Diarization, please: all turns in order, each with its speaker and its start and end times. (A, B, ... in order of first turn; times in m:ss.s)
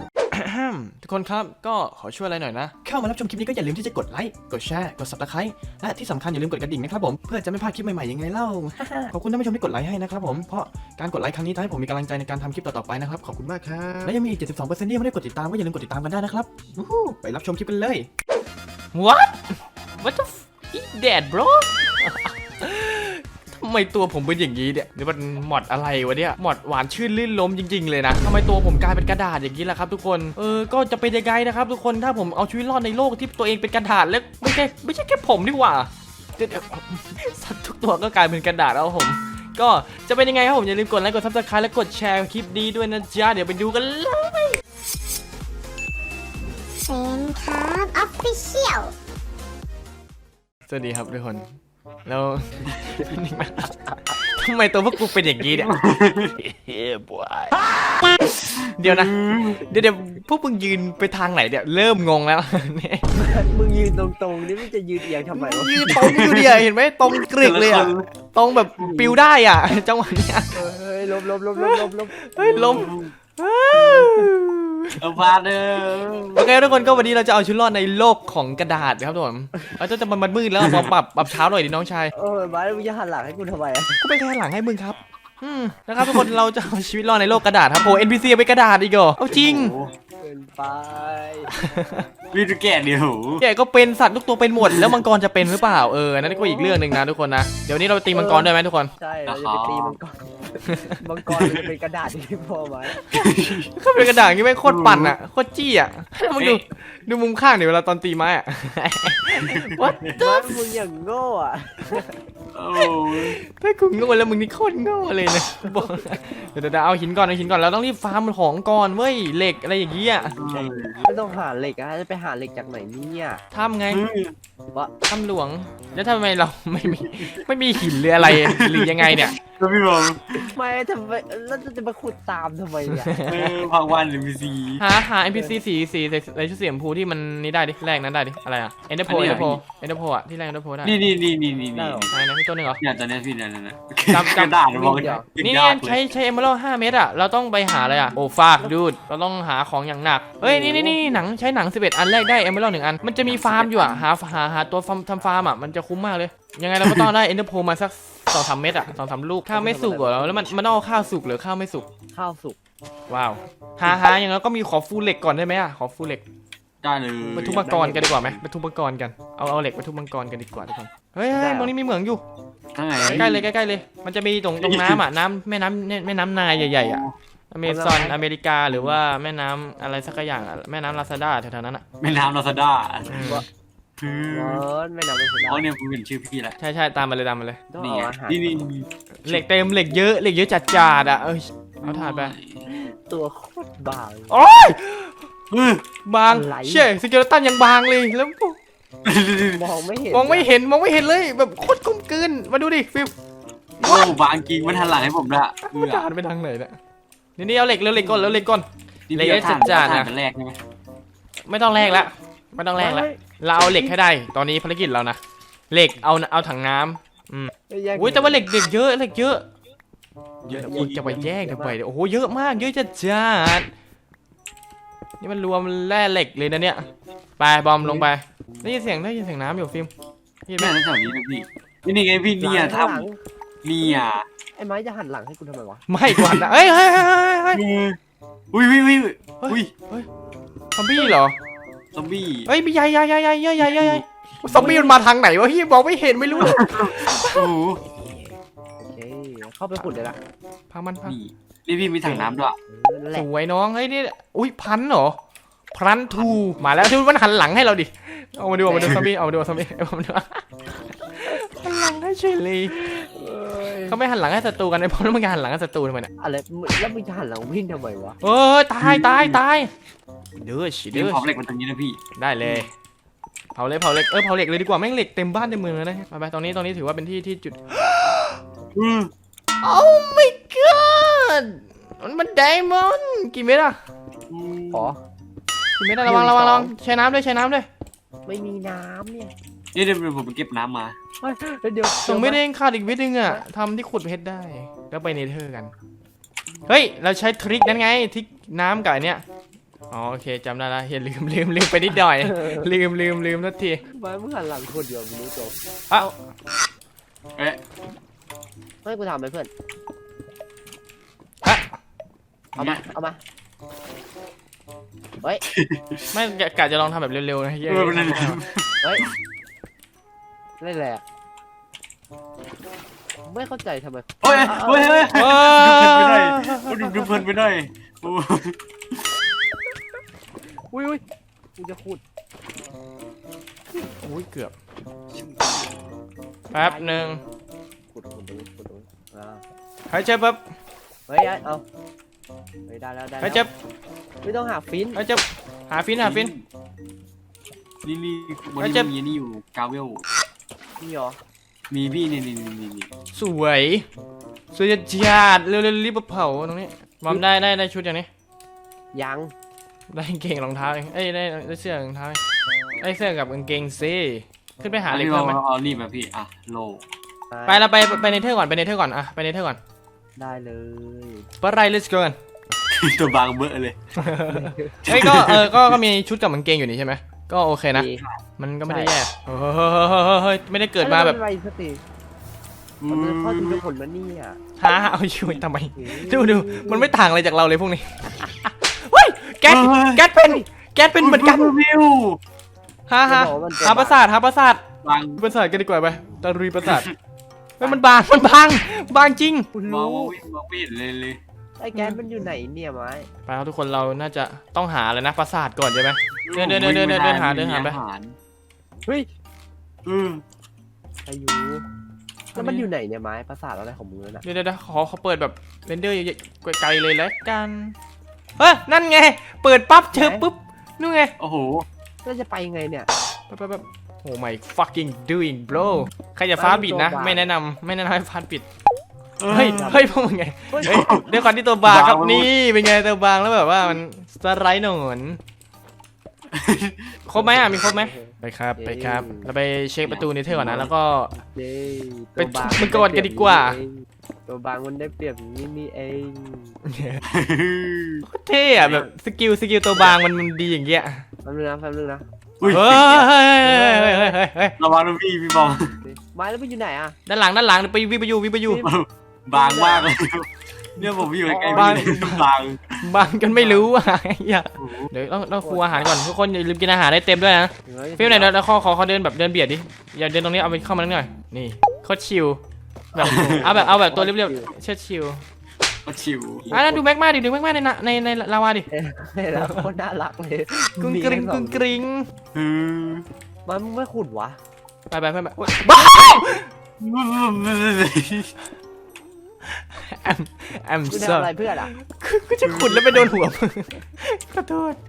0:00.3-0:02.7 A
0:02.8-0:18.1 B
0:18.9-0:44.6 A
0:46.8-0:48.9 C
0:50.7-0:51.4 A
0:52.0-0:55.7 A
0:52.7-0:53.0 D
0:55.5-0:56.3 D
0:56.5-1:03.0 A
0:58.5-0:59.6 D
1:03.1-1:05.9 E
1:05.3-1:10.6 A
1:05.9-1:08.0 D
1:08.8-1:09.2 E
1:10.5-1:12.9 E
1:11.6-1:15.0 A
1:12.5-1:13.1 D
1:13.7-1:14.3 D
1:15.0-1:16.5 D
1:16.3-1:22.1 A
1:20.6-1:20.9 D
1:22.1-1:24.0 E
1:24.0-1:29.7 A
1:29.3-1:29.9 D
1:30.2-1:31.7 E
1:31.5-1:32.1 A
1:32.3-1:33.4 D
1:33.4-1:38.9 A
1:34.7-1:35.0 D
1:36.2-1:36.8 E
1:38.1-1:43.0 E
1:39.2-1:40.0 D
1:40.6-1:41.0 A
1:41.3-1:41.7 D
1:43.0-1:50.3 A
1:43.1-1:43.7 D
1:44.6-1:45.2 D
1:49.4-1:49.9 D
1:49.9-1:52.1 E
1:52.5-1:53.4 D
1:52.8-2:00.3 A
1:55.6-1:56.2 E
2:00.3-2:01.0 D
2:00.4-2:03.4 E
2:03.5-2:04.0 A
2:03.9-2:04.3 D
2:05.0-2:09.4 A
2:06.8-2:07.3 D
2:08.2-2:10.5 D
2:10.4-2:13.2 E
2:13.0-2:13.3 A
2:13.2-2:14.8 D
2:14.8-2:21.0 A
2:15.3-2:15.5 E
2:19.0-2:19.6 D
2:20.8-2:22.1 D
2:21.7-2:22.1 E
2:22.1-2:22.8 A
2:22.8-2:26.0 D
2:24.1-2:24.6 A
2:24.7-2:25.3 E
2:25.4-2:41.9 A
2:30.4-2:31.2 E
2:33.2-2:34.0 D
2:36.8-2:37.1 D
2:39.4-2:40.6 E
2:42.1-2:42.6 E
2:43.1-2:46.2 A
2:46.8-2:47.7 D
2:47.2-2:48.4 E
2:47.3-2:52.2 A
2:51.3-2:51.7 E
2:52.7-2:53.4 D
2:53.0-2:53.2 E
2:53.1-3:01.8 A
2:54.6-2:55.0 D
2:56.6-2:57.1 D
2:57.6-2:58.2 E
2:58.7-2:59.0 D
3:02.0-3:03.4 D
3:03.1-3:03.4 A
3:03.1-3:03.4 E
3:04.0-3:04.6 D
3:04.3-3:05.7 E
3:05.5-3:06.6 D
3:06.6-3:07.6 A
3:07.7-3:08.4 E
3:07.8-3:09.4 D
3:09.2-3:12.3 A
3:11.8-3:12.9 D
3:12.7-3:14.4 E
3:14.3-3:15.2 A
3:15.5-3:15.8 D
3:16.0-3:18.6 A
3:16.3-3:16.9 E
3:19.0-3:19.6 D
3:19.4-3:20.5 E
3:20.1-3:23.1 A
3:23.8-3:24.2 A
3:23.8-3:26.1 D
3:24.0-3:25.1 E
3:25.6-3:26.8 A
3:27.4-3:30.1 A
3:27.9-3:28.4 E
3:29.1-3:30.6 D
3:31.4-3:35.2 A
3:31.7-3:32.0 E
3:32.8-3:34.0 E
3:35.7-3:39.4 A
3:37.7-3:38.4 E
3:40.4-3:41.2 D
3:40.5-3:41.8 E
3:40.5-3:43.7 A
3:45.2-3:46.9 A
3:47.4-3:49.9 A
3:47.8-3:48.1 E
3:50.5-3:50.8 A
3:50.6-3:53.1 D
3:52.4-3:53.2 E
3:53.6-3:54.2 D
3:54.5-3:55.8 E
3:55.9-3:57.6 A
3:56.1-3:56.4 D
3:57.5-3:58.0 D
3:58.5-3:59.7 D
3:59.4-4:00.1 A
4:00.7-4:01.4 A
4:01.9-4:02.5 D
4:02.5-4:07.5 A
4:03.6-4:04.8 D
4:04.5-4:05.0 E
4:06.4-4:07.8 D
4:07.8-4:10.2 E
4:10.7-4:11.2 A
4:11.0-4:12.6 D
4:12.0-4:13.2 E
4:13.1-4:15.2 A
4:15.7-4:23.1 A
4:18.6-4:19.0 E
4:22.7-4:24.0 E
4:23.8-4:26.1 A
4:26.2-4:28.2 E
4:28.2-4:29.7 A
4:28.8-4:29.4 D
4:30.4-4:31.2 A
4:30.9-4:32.0 D
4:32.1-4:32.7 A
4:33.5-4:38.4 A
4:38.7-4:39.1 D
4:39.6-4:43.8 A
4:44.3-4:44.9 D
4:44.7-4:45.0 E
4:45.8-4:47.7 A
4:46.0-4:46.7 E
4:48.2-4:49.3 E
4:49.7-4:51.0 D
4:51.2-4:52.4 E
4:52.0-4:55.7 A
4:56.7-4:59.2 A
4:59.9-5:03.8 A
5:02.2-5:02.7 E
5:03.9-5:06.0 E
5:08.8-5:09.5 E
5:11.4-5:11.7 A
5:12.5-5:12.8 D
5:12.6-5:13.2 E
5:15.5-5:16.1 D
5:16.1-5:18.4 A
5:17.6-5:19.0 D
5:20.6-5:21.0 E
5:23.2-5:25.1 E
5:24.2-5:29.0 D
5:25.1-5:26.8 A
5:30.5-5:31.0 E
5:31.6-5:32.0 E
5:33.7-5:34.5 A
5:35.1-5:35.7 D
5:36.5-5:37.2 A
5:36.5-5:37.2 E
5:37.9-5:39.4 E
5:39.9-5:40.4 A
5:41.1-5:41.6 E
5:42.7-5:43.4 E
5:43.2-5:43.5 A
5:44.2-5:45.0 E
5:44.9-5:46.3 A
5:46.0-5:46.4 D
5:47.8-5:50.0 D
5:48.6-5:48.9 A
5:50.8-5:51.2 E
5:51.7-5:52.9 D
5:53.1-5:53.9 A
5:54.5-5:58.1 A
5:58.9-5:59.3 E
5:59.9-6:02.2 A
6:02.8-6:05.4 A
6:04.9-6:06.8 D
6:07.3-6:07.6 E
6:07.4-6:09.6 A
6:10.2-6:11.3 E
6:11.4-6:12.2 A
6:12.7-6:13.8 D
6:14.0-6:17.9 A
6:14.1-6:14.8 E
6:14.8-6:15.7 D
6:17.7-6:18.0 E
6:18.4-6:21.2 A
6:18.6-6:19.0 E
6:20.8-6:21.8 E
6:22.8-6:23.6 D
6:22.9-6:24.4 E
6:24.6-6:31.5 A
6:25.8-6:26.9 E
6:29.4-6:30.0 D
6:31.0-6:32.2 D
6:32.9-6:34.6 A
6:33.0-6:34.0 E
6:34.8-6:35.2 D
6:35.2-6:36.9 A
6:36.6-6:36.9 D
6:37.6-6:39.5 A
6:39.5-6:40.1 E
6:39.6-6:41.2 D
6:41.6-6:43.1 E
6:43.2-6:47.8 A
6:46.2-6:48.2 D
6:49.8-6:50.2 D
6:51.0-6:51.6 E
6:52.3-6:52.7 A
6:52.4-6:54.2 E
6:54.2-6:57.7 A
6:58.4-7:01.1 A
6:59.9-7:00.2 E
7:01.2-7:01.6 D
7:02.0-7:02.9 E
7:03.3-7:08.4 A
7:06.4-7:07.3 E
7:09.2-7:09.8 D
7:09.3-7:15.2 A
7:09.5-7:09.9 E
7:10.5-7:10.8 E
7:10.6-7:12.3 D
7:16.3-7:16.9 D
7:17.1-7:21.1 A
7:17.1-7:19.3 E
7:19.8-7:20.7 D
7:21.2-7:26.6 E
7:22.2-7:23.6 A
7:26.6-7:27.0 A
7:27.1-7:28.0 D
7:28.0-7:31.0 A
7:28.6-7:28.9 E
7:31.2-7:34.2 E
7:32.4-7:33.0 D
7:32.4-7:34.5 A
7:34.6-7:35.7 D
7:35.8-7:37.0 E
7:37.0-7:38.6 A
7:38.4-7:38.7 E
7:38.6-7:42.8 D
7:39.3-7:39.9 E
7:40.8-7:41.9 E
7:41.4-7:42.2 A
7:42.8-7:52.4 A
7:43.3-7:43.7 E
7:44.6-7:44.9 D
7:45.4-7:45.9 E
7:47.6-7:48.3 E
7:52.9-7:55.2 A
7:53.0-7:53.3 D
7:53.4-7:54.5 E
7:55.8-7:56.5 D
7:56.5-7:56.8 E
7:56.5-7:58.7 A
7:58.7-8:01.7 E
8:00.5-8:02.1 A
8:02.3-8:03.0 D
8:03.4-8:04.4 E
8:04.9-8:06.5 A
8:05.7-8:06.3 D
8:06.8-8:08.3 D
8:09.5-8:14.8 A
8:10.8-8:11.7 E
8:12.4-8:13.1 D